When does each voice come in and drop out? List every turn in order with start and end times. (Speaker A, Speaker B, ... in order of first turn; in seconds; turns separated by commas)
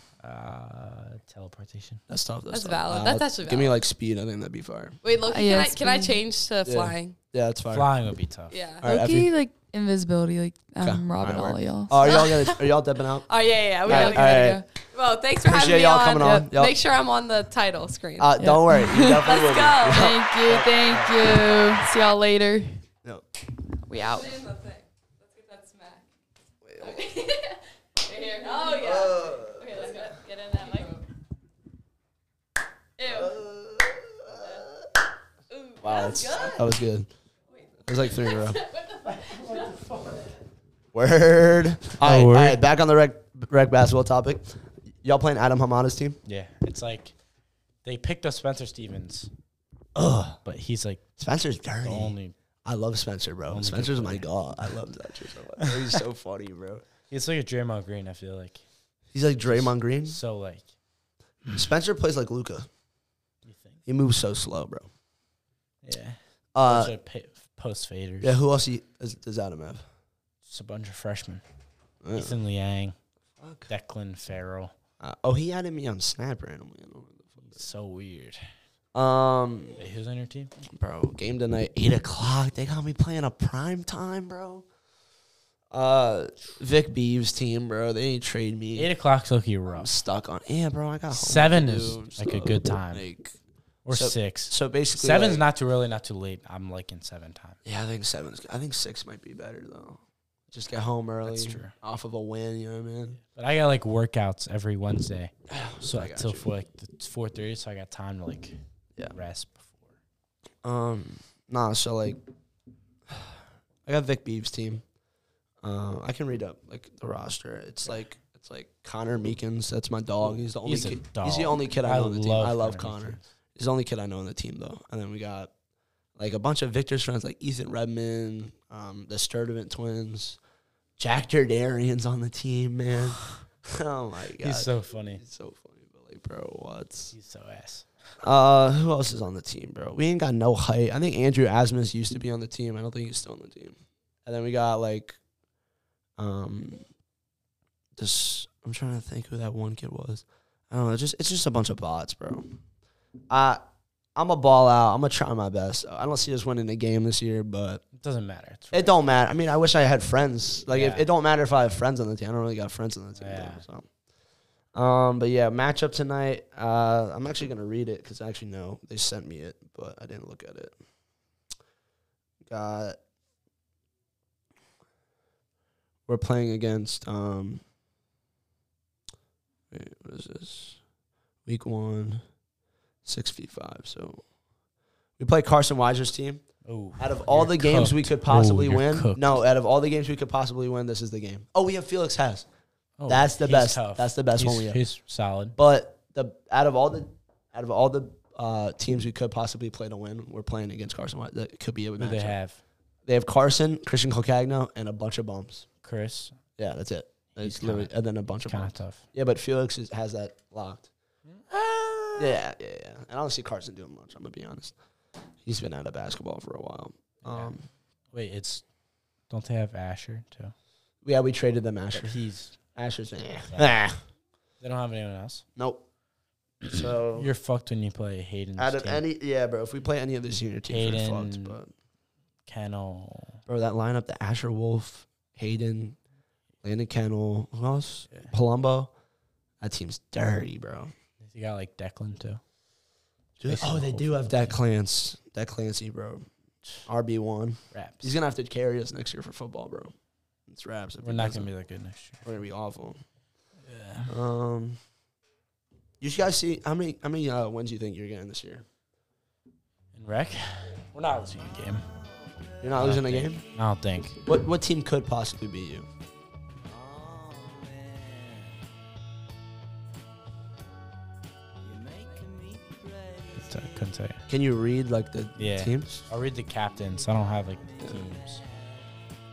Speaker A: 0.2-2.0, Speaker B: 2.1-5.0, Speaker C: 2.5-3.8, Speaker C: 5.0-7.2, Speaker D: 5.3-6.2, Speaker B: 6.7-7.9, Speaker A: 7.7-8.6, Speaker C: 8.5-8.8, Speaker B: 8.8-9.3, Speaker D: 8.8-12.1, Speaker B: 10.8-13.3, Speaker C: 12.0-12.7, Speaker C: 13.3-18.3, Speaker B: 13.8-14.6, Speaker D: 13.8-14.6, Speaker B: 15.4-16.8, Speaker D: 16.2-16.5, Speaker B: 18.2-21.7, Speaker D: 18.4-19.3, Speaker C: 19.2-20.1, Speaker D: 19.9-22.8, Speaker D: 23.9-24.4, Speaker C: 24.0-26.1, Speaker B: 26.6-27.0, Speaker C: 27.1-27.4, Speaker D: 27.1-27.5, Speaker C: 28.0-31.0, Speaker B: 28.7-29.9, Speaker D: 29.8-30.9, Speaker C: 33.0-33.3, Speaker B: 33.0-34.6, Speaker C: 35.5-36.6, Speaker B: 35.8-37.1, Speaker B: 37.9-38.6, Speaker C: 37.9-39.6, Speaker B: 40.9-46.2, Speaker A: 42.0-42.6, Speaker A: 46.2-47.1, Speaker A: 47.8-49.3, Speaker B: 50.0-50.4, Speaker A: 50.5-51.0, Speaker B: 51.2-56.9, Speaker A: 51.8-52.4, Speaker A: 53.5-54.7, Speaker A: 57.1-58.6, Speaker B: 59.1-60.2, Speaker A: 59.4-60.7, Speaker B: 61.5-62.7, Speaker A: 63.5-63.8, Speaker B: 63.9-64.9, Speaker A: 65.8-68.4, Speaker B: 66.5-66.9, Speaker B: 68.2-69.8, Speaker A: 70.5-71.4, Speaker B: 72.0-72.3, Speaker A: 72.2-73.0, Speaker B: 73.4-73.7, Speaker A: 73.7-74.7, Speaker B: 75.0-77.5, Speaker A: 77.5-78.4, Speaker B: 79.0-79.8, Speaker A: 79.8-80.5, Speaker B: 80.7-84.7, Speaker B: 85.7-88.9, Speaker A: 88.8-89.9, Speaker B: 89.7-93.4, Speaker A: 91.1-93.1, Speaker A: 93.8-97.6, Speaker B: 93.9-95.5, Speaker B: 97.7-100.0, Speaker B: 100.5-103.2, Speaker A: 101.2-101.7, Speaker A: 103.3-108.6, Speaker B: 105.5-106.5, Speaker A: 109.1-109.7, Speaker B: 110.6-112.2, Speaker B: 113.9-114.8, Speaker B: 115.6-125.5, Speaker A: 120.2-123.2, Speaker B: 126.2-130.4, Speaker B: 131.0-137.1, Speaker A: 134.4-135.2, Speaker A: 137.1-137.9, Speaker B: 138.2-145.2, Speaker B: 146.2-146.8, Speaker B: 148.0-152.4, Speaker B: 153.3-153.6, Speaker B: 154.2-157.8, Speaker A: 157.9-158.9, Speaker B: 158.7-163.8, Speaker A: 160.7-161.1, Speaker A: 163.2-163.6, Speaker B: 164.8-170.8, Speaker B: 172.5-173.0, Speaker B: 176.1-177.6, Speaker B: 179.7-180.8, Speaker B: 181.5-182.2, Speaker B: 183.1-184.2, Speaker B: 185.2-186.4, Speaker A: 186.7-189.4, Speaker B: 187.0-192.5, Speaker A: 193.0-195.6, Speaker B: 193.1-194.8, Speaker B: 195.6-202.4, Speaker A: 202.0-202.6, Speaker B: 203.1-205.7, Speaker A: 205.8-206.4, Speaker B: 206.6-210.9, Speaker A: 207.4-209.0, Speaker A: 211.3-212.4, Speaker B: 212.2-214.8, Speaker B: 215.4-217.6, Speaker A: 217.2-217.5, Speaker A: 218.1-218.6, Speaker A: 219.3-220.5, Speaker B: 221.1-222.2, Speaker A: 221.9-222.7, Speaker B: 222.7-224.0, Speaker A: 224.6-225.4, Speaker B: 225.6-225.8, Speaker B: 226.6-227.3, Speaker A: 227.2-229.0, Speaker B: 228.6-231.7, Speaker A: 230.7-231.6, Speaker A: 232.5-233.4, Speaker B: 233.5-236.0, Speaker B: 236.6-238.9, Speaker B: 239.6-240.9, Speaker A: 241.2-242.4, Speaker B: 243.4-246.3, Speaker A: 243.5-244.6, Speaker B: 246.9-249.9, Speaker A: 247.7-248.1, Speaker B: 250.5-251.5, Speaker A: 251.0-252.2, Speaker B: 252.2-253.0, Speaker A: 253.7-254.1, Speaker B: 254.1-254.8, Speaker B: 256.0-258.6, Speaker A: 259.9-261.9, Speaker B: 262.6-263.4, Speaker A: 262.8-264.2, Speaker B: 264.2-265.9, Speaker A: 272.0-274.2, Speaker B: 274.3-276.1, Speaker A: 275.4-278.4